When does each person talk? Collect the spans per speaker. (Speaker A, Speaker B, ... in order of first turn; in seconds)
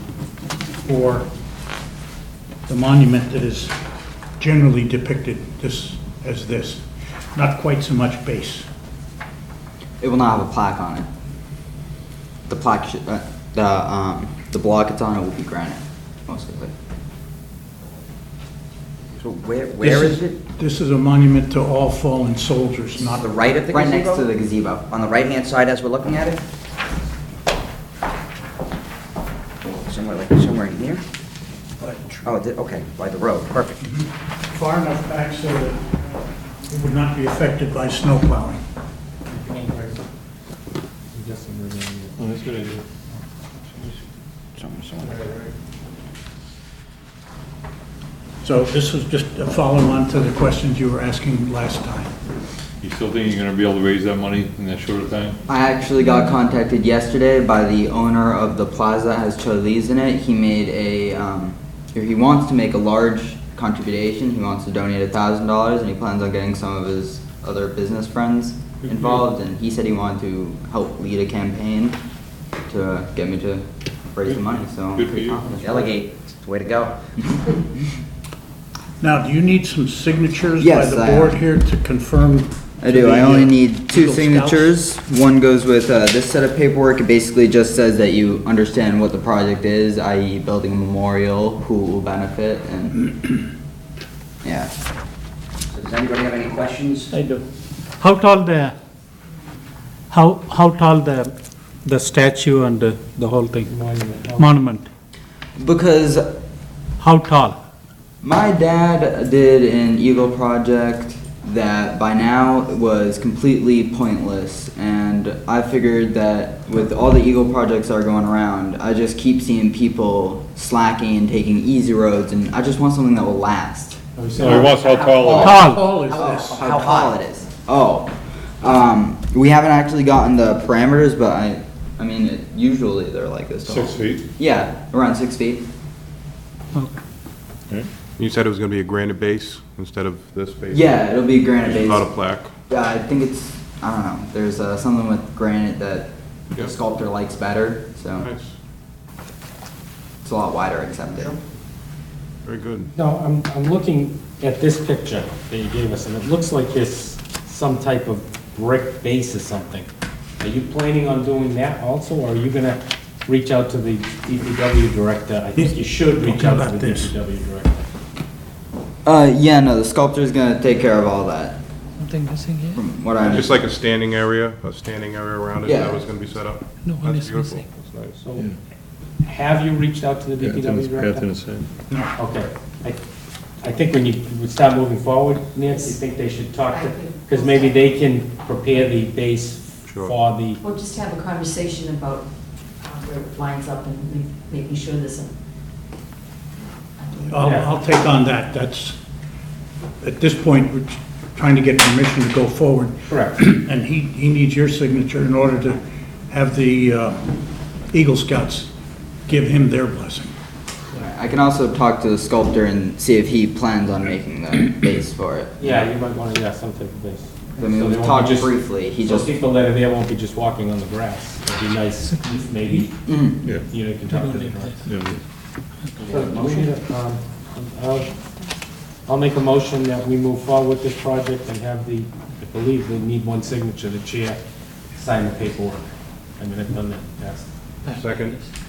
Speaker A: 0.8-1.3, 2.7-3.8, 4.4-8.7, 19.8-23.3, 31.8-32.5, 33.8-36.1, 36.6-38.6, 48.4-52.1, 79.0-84.8, 125.4-126.9, 165.6-167.1, 197.3-199.0, 200.0-207.3, 207.9-208.7, 209.3-210.3
Speaker B: 10.0-11.1, 12.5-16.7, 23.7-24.9, 55.5-72.0, 72.7-75.5, 80.6-81.4, 82.8-93.1, 94.4-94.7, 105.6-106.3, 108.2-124.0, 125.0-135.6, 140.7-142.1, 142.7-148.3, 150.2-151.4, 169.1-171.6, 172.7-173.6, 175.6-176.0, 210.9-215.7, 217.6-219.3, 223.1-223.4
Speaker C: 19.2-20.4, 23.0-24.3, 24.9-26.4, 29.6-31.0, 32.2-33.8, 44.6-45.2, 75.6-77.5, 95.7-97.1, 125.9-127.1
Speaker D: 39.3-40.0, 41.1-42.3, 103.7-104.5, 124.2-124.7, 152.9-159.9, 160.4-167.8, 178.2-178.6, 179.2-181.4, 182.2-183.0, 183.6-190.6, 197.4-197.7, 203.1-203.4, 215.6-224.8, 226.1-228.1, 229.1-234.4, 234.9-237.6
Speaker E: 42.2-42.8, 52.8-55.4, 74.3-75.8, 124.4-125.5, 133.7-134.2, 180.4-181.7, 223.4-223.7, 224.9-225.2
Speaker F: 97.1-97.4, 98.0-98.8, 100.1-101.3, 101.8-103.7, 104.4-104.9, 107.0-107.6
Speaker G: 138.2-140.9, 141.6-142.5, 148.2-148.6, 152.4-152.9, 173.2-178.3, 189.9-190.2, 237.9-238.4
Speaker H: 172.0-172.8, 176.8-177.7, 222.1-222.8, 224.1-224.8, 225.8-226.5, 237.8-238.5
Speaker I: 186.7-187.6, 190.6-192.3, 192.8-195.3, 197.0-197.3